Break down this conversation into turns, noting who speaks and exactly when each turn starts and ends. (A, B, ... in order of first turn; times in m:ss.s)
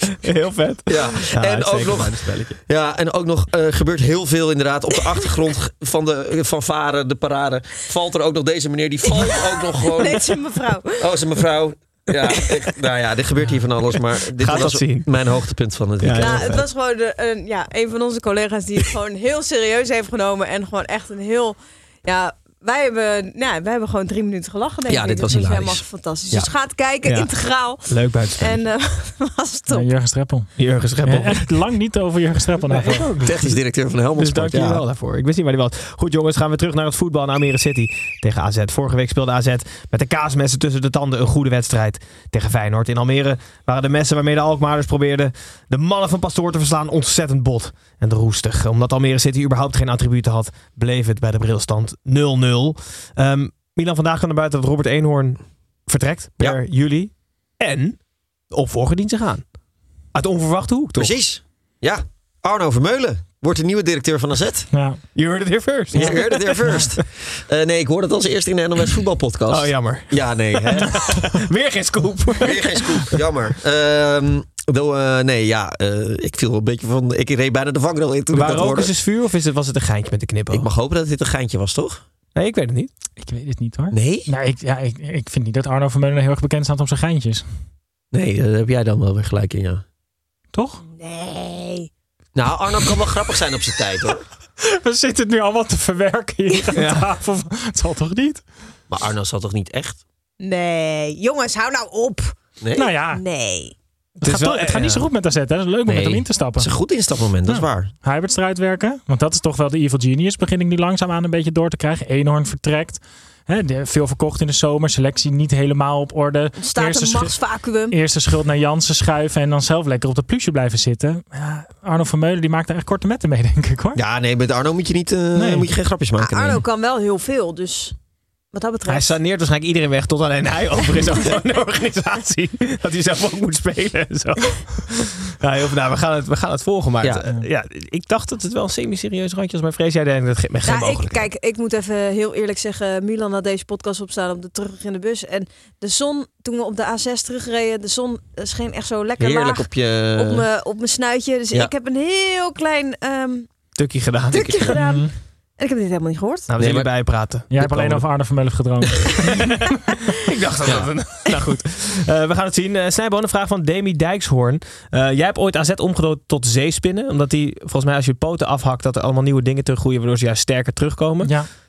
0:00.2-0:02.6 A
0:00.9-0:10.3 B
0:09.8-0:11.0 C
0:11.0-0:16.6 B
0:14.3-0:15.1 A
0:16.0-0:16.6 A
0:16.2-0:27.9 C
0:24.9-0:26.5 B
0:27.0-0:27.3 A
0:27.8-0:28.6 A
0:28.4-0:29.8 C
0:29.7-0:30.5 D
0:30.6-0:31.6 A
0:31.0-0:33.1 D
0:32.6-0:33.6 A
0:33.2-0:34.8 B
0:34.2-0:58.0 A
0:58.5-0:59.4 A
1:00.1-1:01.1 A
1:01.0-1:04.7 B
1:04.7-1:05.0 D
1:05.1-1:06.9 A
1:05.9-1:11.2 B
1:06.0-1:06.9 D
1:09.5-1:13.2 A
1:12.4-1:18.9 B
1:18.3-1:20.7 A
1:20.5-1:22.0 B
1:22.3-1:22.9 A
1:23.2-1:27.4 D
1:23.9-1:24.3 B
1:28.1-1:29.8 B
1:30.5-1:30.8 D
1:30.9-1:31.9 C
1:32.3-1:34.2 B
1:34.6-1:38.4 D
1:36.7-1:37.1 A
1:38.9-1:40.0 B
1:40.4-1:42.4 C
1:42.6-1:42.9 B
1:42.8-1:43.2 D
1:43.1-1:43.7 C
1:44.2-1:45.1 A
1:44.2-1:46.7 D
1:45.9-1:47.9 B
1:47.5-1:57.3 D
1:56.6-1:57.9 C
1:57.9-2:04.0 D
2:04.0-2:06.6 B
2:05.3-2:05.7 D
2:06.2-2:07.9 C
2:08.5-2:09.2 C
2:08.9-2:21.3 A
2:20.6-2:33.5 C
2:29.2-2:30.4 B
2:33.8-2:34.7 A
2:34.3-2:36.5 C
2:34.3-2:34.7 B
2:34.8-2:35.1 D
2:36.5-2:38.0 A
2:36.6-2:36.9 B
2:37.5-2:39.7 D
2:39.3-2:51.4 A